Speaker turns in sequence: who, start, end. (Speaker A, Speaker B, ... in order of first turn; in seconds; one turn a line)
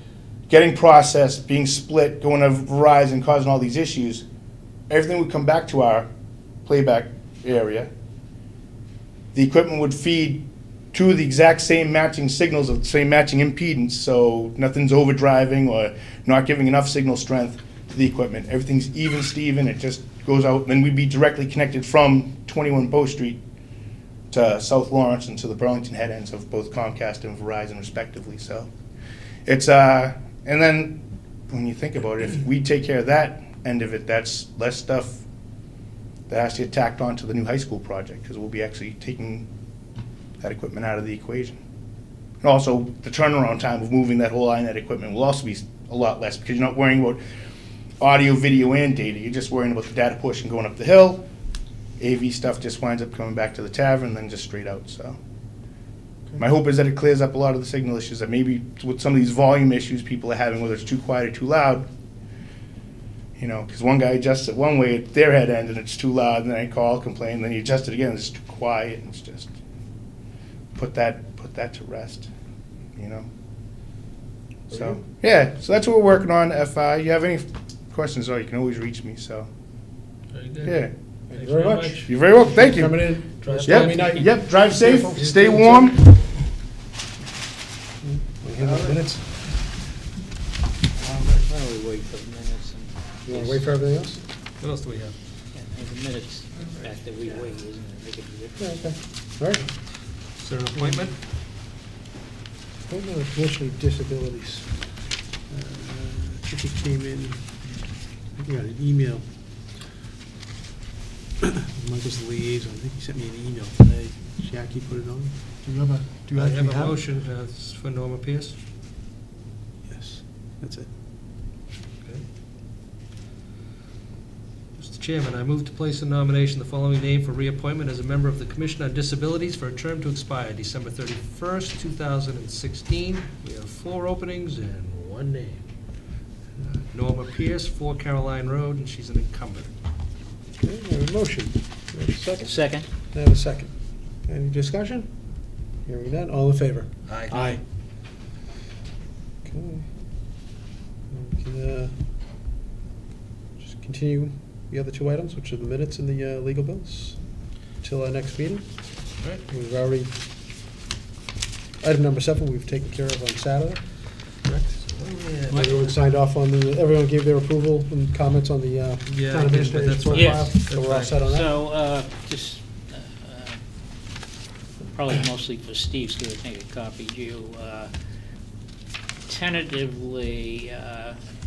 Speaker A: 0.5-4.2
Speaker A: 4.9-6.1
Speaker A: 6.7-7.9
Speaker A: 9.3-23.4
Speaker A: 24.3-28.7
Speaker A: 29.4-31.0
Speaker A: 31.5-35.2
Speaker A: 36.3-39.5
Speaker A: 40.4-41.6
Speaker A: 42.4-47.2
Speaker A: 48.0-51.2
Speaker A: 52.0-55.2
Speaker A: 56.4-61.9
Speaker A: 63.4-69.5
Speaker A: 70.7-72.3
Speaker A: 73.0-73.3
Speaker B: 74.7-75.0
Speaker A: 74.7-79.5
Speaker C: 80.3-80.8
Speaker A: 80.6-80.9
Speaker B: 81.3-86.2
Speaker C: 81.3-82.5
Speaker A: 82.0-83.0
Speaker C: 83.4-84.2
Speaker A: 83.6-86.1
Speaker B: 88.0-89.2
Speaker D: 91.1-93.7
Speaker B: 93.3-94.2
Speaker C: 94.6-95.2
Speaker D: 95.5-98.9
Speaker B: 98.6-99.7
Speaker C: 100.4-101.2
Speaker B: 102.9-107.6
Speaker B: 108.3-109.2
Speaker B: 111.4-117.0
Speaker C: 116.3-118.5
Speaker B: 119.8-120.9
Speaker C: 124.8-135.6
Speaker C: 136.7-139.7
Speaker B: 140.6-145.1
Speaker D: 142.4-142.9
Speaker B: 145.8-147.6
Speaker C: 147.1-147.6
Speaker B: 149.4-149.9
Speaker B: 151.1-151.9
Speaker B: 153.6-160.1
Speaker C: 159.2-159.4
Speaker B: 161.8-164.0
Speaker C: 164.4-165.9
Speaker B: 165.5-171.5
Speaker C: 169.1-171.2
Speaker D: 170.1-170.6
Speaker D: 171.2-173.6
Speaker D: 174.9-177.9
Speaker D: 179.3-181.2